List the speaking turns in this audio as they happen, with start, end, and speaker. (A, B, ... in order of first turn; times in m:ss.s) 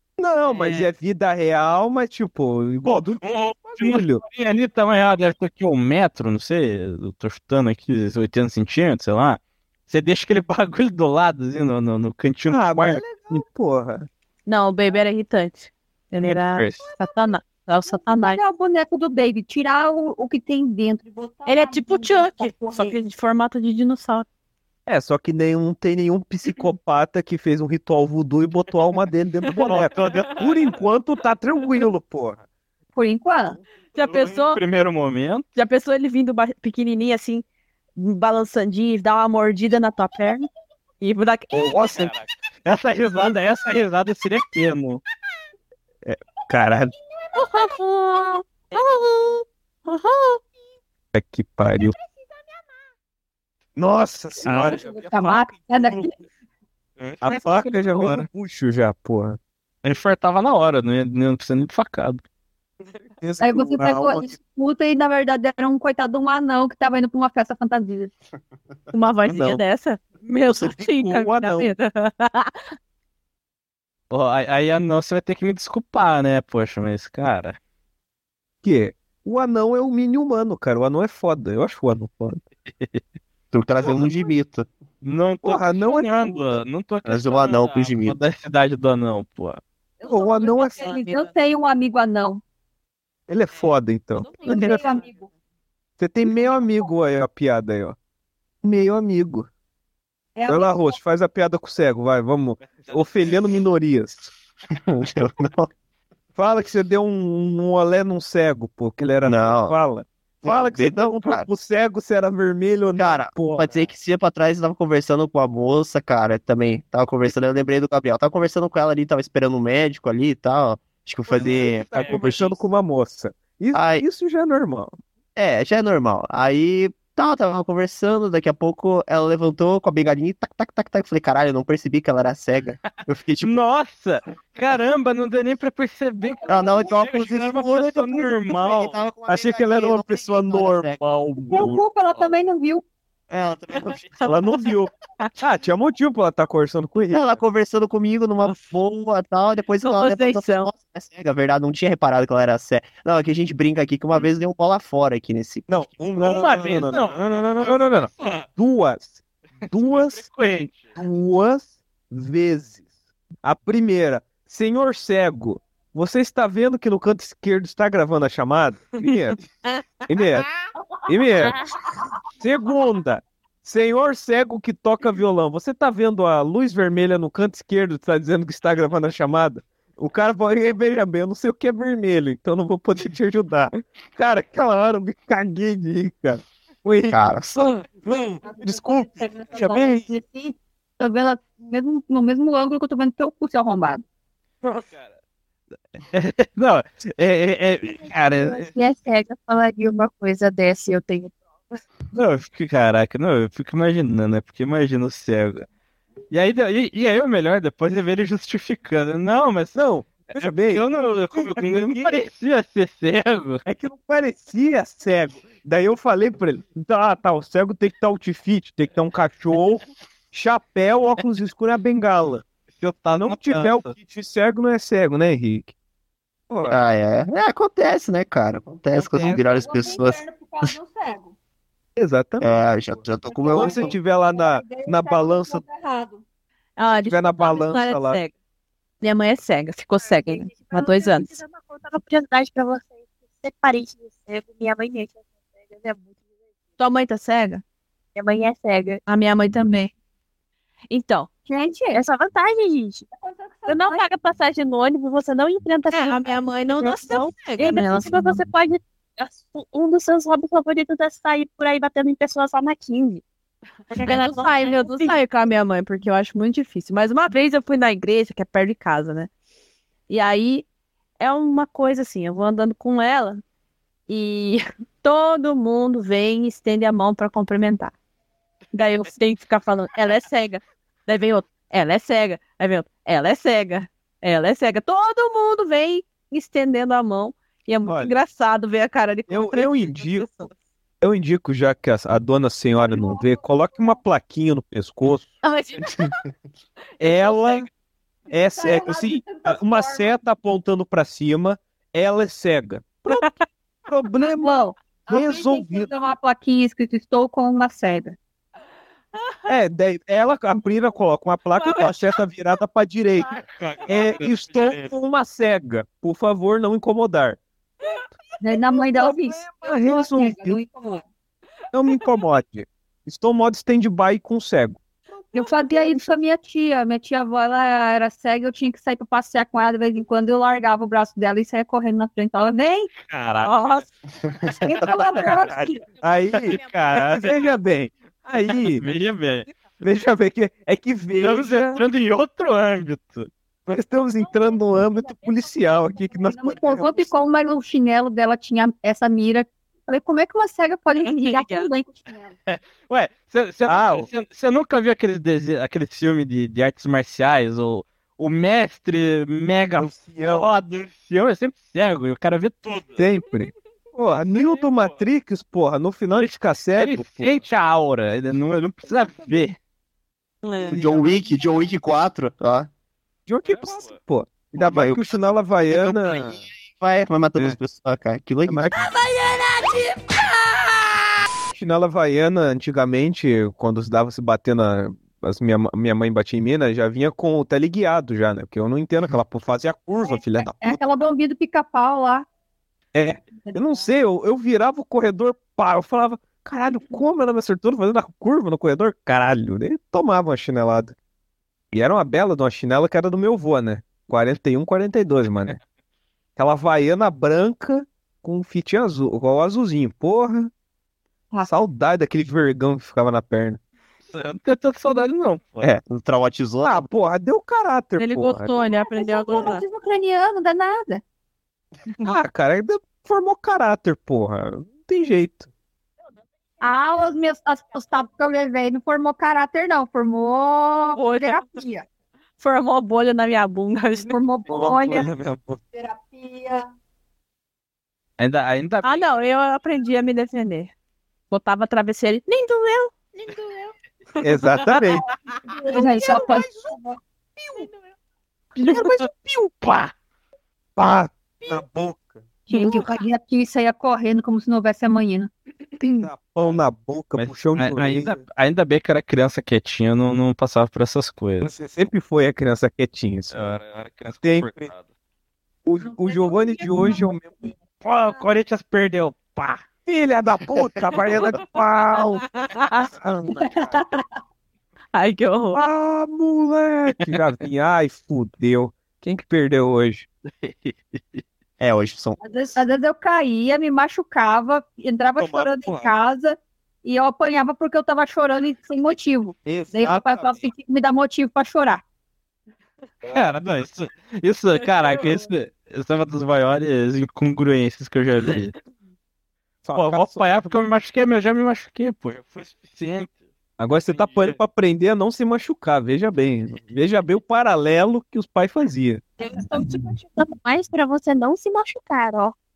0:00.2-0:04.2 A
0:02.8-0:13.0 B
0:12.5-0:14.1 A
0:14.4-0:18.4 C
0:16.2-0:16.8 B
0:17.9-0:23.0 D
0:21.4-0:24.2 C
0:24.9-0:32.4 A
0:29.6-0:30.8 B
0:32.9-0:33.6 D
0:33.9-0:34.6 C
0:34.0-0:35.4 B
0:35.6-0:37.4 C
0:38.0-0:40.5 C
0:41.0-0:41.8 C
0:41.5-0:42.1 A
0:41.8-0:45.0 B
0:46.1-0:46.9 A
0:47.4-0:49.1 C
0:49.8-0:50.4 C
0:51.1-0:51.9 A
0:53.8-0:54.8 A
0:54.4-0:55.5 B
0:54.6-0:56.1 D
0:57.0-0:57.3 B
0:57.2-0:59.4 A
0:58.0-0:58.3 B
0:59.8-1:02.2 B
1:03.2-1:04.3 A
1:03.4-1:08.1 D
1:08.9-1:12.7 C
1:10.7-1:11.7 A
1:14.1-1:17.6 B
1:18.6-1:22.4 A
1:23.5-1:24.7 E
1:25.0-1:29.6 B
1:25.4-1:26.4 A
1:27.0-1:28.2 E
1:30.0-1:32.4 D
1:30.0-1:30.8 A
1:30.8-1:31.3 C
1:33.3-1:34.3 A
1:34.2-1:35.1 C
1:34.4-1:35.3 D
1:34.5-1:34.8 F
1:36.0-1:38.0 A
1:38.6-1:39.5 A
1:40.4-1:41.0 D
1:40.5-1:44.3 A
1:42.7-1:43.1 B
1:44.7-1:45.7 E
1:46.4-1:53.8 A
1:49.2-1:49.7 E
1:50.4-1:51.5 E
1:53.0-2:02.6 E
2:01.3-2:02.4 B
2:01.3-2:05.0 A
2:03.7-2:04.0 E
2:05.4-2:13.6 E
2:13.4-2:19.0 B
2:16.5-2:21.0 E
2:19.3-2:21.0 A
2:21.0-2:22.4 B
2:21.5-2:22.8 D
2:23.3-2:24.3 E
2:24.2-2:27.4 A
2:27.1-2:35.7 E
2:29.8-2:30.7 C
2:35.7-2:40.3 A
2:36.2-2:38.5 B
2:39.6-2:40.9 B
2:40.9-2:42.8 A
2:43.4-2:49.4 A
2:50.1-2:50.5 A
2:51.0-2:51.5 A
2:52.4-3:10.1 A
3:07.1-3:07.6 E
3:08.4-3:14.0 D
3:14.6-3:15.1 B
3:16.1-3:18.7 B
3:18.6-3:21.3 F
3:22.1-3:25.6 B
3:26.3-3:29.8 B
3:29.7-3:32.2 A
3:30.4-3:33.6 B
3:33.6-3:45.7 A
3:43.2-3:43.9 B
3:46.5-3:46.8 A
3:46.7-3:50.7 E
3:49.2-3:51.3 D
3:52.0-3:52.5 A
3:52.4-3:53.9 E
3:53.3-3:56.2 D
3:53.5-3:55.6 A
3:56.8-3:58.3 C
3:56.9-3:58.2 A
3:59.0-4:01.3 C
4:00.0-4:06.1 F
4:06.8-4:07.6 C
4:08.1-4:09.0 F
4:09.1-4:09.9 C
4:10.9-4:11.3 C
4:11.5-4:12.0 D
4:11.9-4:13.0 F
4:13.1-4:14.0 D
4:13.7-4:14.0 C
4:13.7-4:23.2 F
4:15.9-4:18.2 C
4:23.9-4:25.2 F
4:24.0-4:29.3 C
4:30.1-4:30.7 C
4:31.2-4:33.4 C
4:34.1-4:37.9 C
4:38.7-4:50.5 C
4:47.8-4:48.1 A
4:49.3-4:50.5 A
4:51.0-4:55.4 A
4:52.8-4:54.0 D
4:55.4-4:56.1 C
4:57.0-4:57.6 C
4:57.0-4:57.7 A
4:58.3-5:00.2 D
4:58.3-5:03.2 A
5:03.1-5:03.3 C
5:03.8-5:05.9 A
5:04.2-5:08.2 D
5:09.5-5:13.3 A
5:11.5-5:12.2 C
5:13.3-5:14.9 B
5:13.9-5:17.4 A
5:17.8-5:19.4 C
5:18.4-5:21.0 D
5:19.6-5:20.6 A
5:21.7-5:24.8 A
5:25.3-5:32.9 D
5:25.3-5:26.0 C
5:33.0-5:33.6 B
5:33.4-5:33.8 C
5:34.4-5:34.8 E
5:34.6-5:35.9 D
5:35.1-5:35.6 B
5:36.0-5:38.8 A
5:36.3-5:37.3 B
5:38.5-5:39.5 B
5:39.8-5:41.8 A
5:41.2-5:43.3 B
5:43.7-5:47.1 A
5:44.3-5:52.3 D
5:51.0-5:51.7 C
5:52.5-6:03.0 B
5:53.7-5:54.1 A
5:59.8-6:00.4 A
6:03.0-6:07.3 A
6:04.3-6:05.0 B
6:06.1-6:09.6 B
6:10.4-6:10.8 C
6:10.7-6:12.7 E
6:13.3-6:16.4 A
6:13.4-6:14.0 B
6:14.6-6:15.0 E
6:15.7-6:18.7 E
6:18.4-6:18.8 A
6:21.5-6:30.8 A
6:30.0-6:32.2 D
6:32.9-6:40.9 A
6:33.4-6:33.9 D
6:41.7-6:45.6 A
6:46.4-6:50.5 A
6:51.4-6:53.6 A
6:54.1-6:55.7 B
6:55.6-6:56.9 E
6:56.6-6:58.5 A
6:58.0-6:59.6 C
6:58.6-7:01.0 D
7:02.0-7:05.5 A
7:06.6-7:11.8 D
7:10.9-7:11.6 C
7:12.4-7:14.2 C
7:14.1-7:15.1 D
7:14.5-7:15.6 A
7:15.7-7:16.7 D
7:18.2-7:19.2 B
7:18.8-7:20.7 C
7:21.3-7:23.6 C
7:24.2-7:25.0 A
7:24.7-7:25.0 C
7:25.6-7:26.3 C
7:25.6-7:26.8 D
7:25.7-7:26.7 A
7:27.4-7:27.7 A
7:28.6-7:28.9 B
7:28.6-7:29.5 A
7:29.6-7:29.9 B
7:30.8-7:32.8 A
7:32.5-7:35.3 D
7:36.0-7:38.2 A
7:37.2-7:41.5 B
7:41.4-7:43.6 A
7:43.3-7:44.8 B
7:44.2-7:44.7 A
7:45.6-7:47.5 A
7:47.8-7:49.6 B
7:49.8-7:52.2 A
7:52.6-7:52.9 C
7:52.9-7:53.7 A
7:53.3-7:54.0 D
7:54.9-7:55.6 C
7:55.5-8:00.1 A
8:00.4-8:01.2 B
8:01.6-8:02.2 E
8:02.2-8:11.8 D
8:05.2-8:05.9 A
8:09.4-8:10.4 A
8:13.0-8:18.5 B
8:19.6-8:20.2 A
8:19.7-8:23.2 B
8:23.6-8:29.0 A
8:23.9-8:24.4 B
8:29.2-8:32.3 F